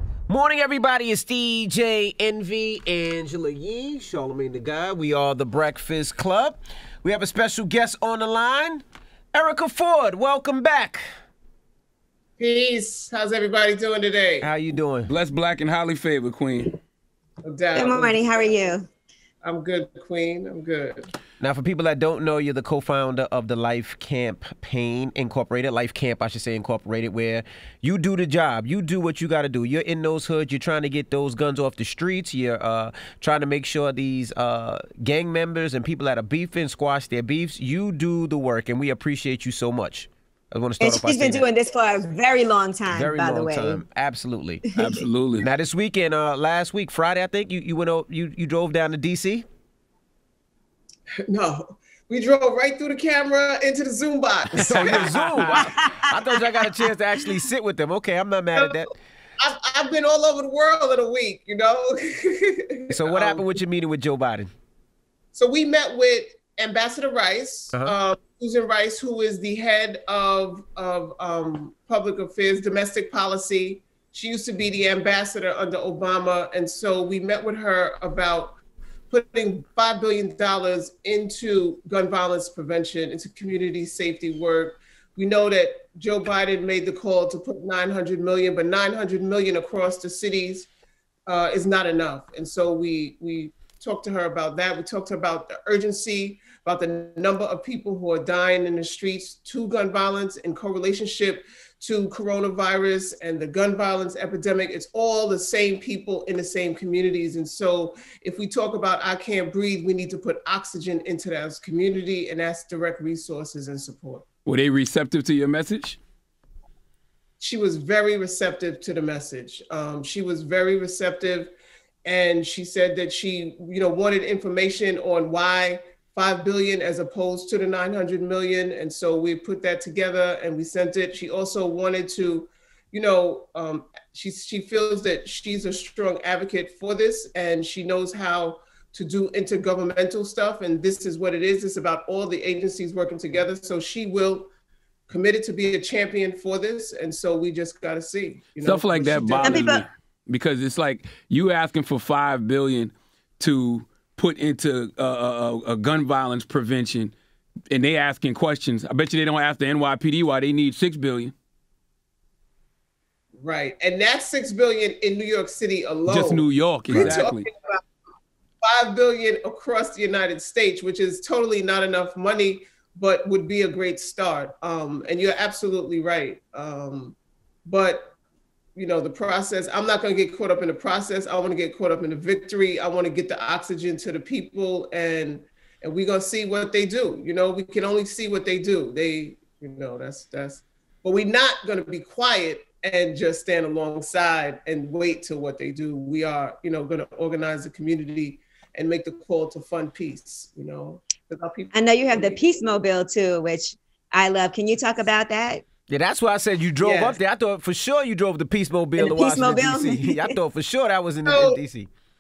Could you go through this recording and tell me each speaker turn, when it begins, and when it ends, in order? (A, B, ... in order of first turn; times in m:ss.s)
0:00.3-0:11.0 A
0:12.4-0:14.5 B
0:14.4-0:15.1 A
0:15.1-0:16.8 C
0:17.4-0:18.2 B
0:17.7-0:18.9 D
0:19.4-0:21.1 B
0:21.4-0:41.5 A
0:40.8-0:43.8 D
0:42.9-0:44.6 A
0:44.8-0:45.5 C
0:45.4-0:49.5 A
0:51.3-0:55.1 B
0:54.5-0:58.9 A
0:54.6-0:55.7 C
0:55.5-0:56.8 D
0:58.6-0:58.8 B
0:59.4-1:03.5 B
1:02.9-1:04.5 A
1:05.3-1:18.6 B
1:19.1-1:30.7 B
1:31.3-1:54.3 B
1:54.4-1:56.0 C
1:57.4-2:01.5 B
2:02.0-2:24.5 B
2:25.1-2:29.8 B
2:28.6-2:37.2 C
2:29.4-2:29.8 D
2:37.7-2:41.3 C
2:43.4-2:47.8 B
2:46.1-2:47.5 C
2:48.6-2:58.1 B
2:58.8-3:22.4 B
3:21.7-3:25.6 D
3:25.9-3:31.9 A
3:26.8-3:27.2 B
3:29.0-3:30.4 D
3:31.3-3:31.6 B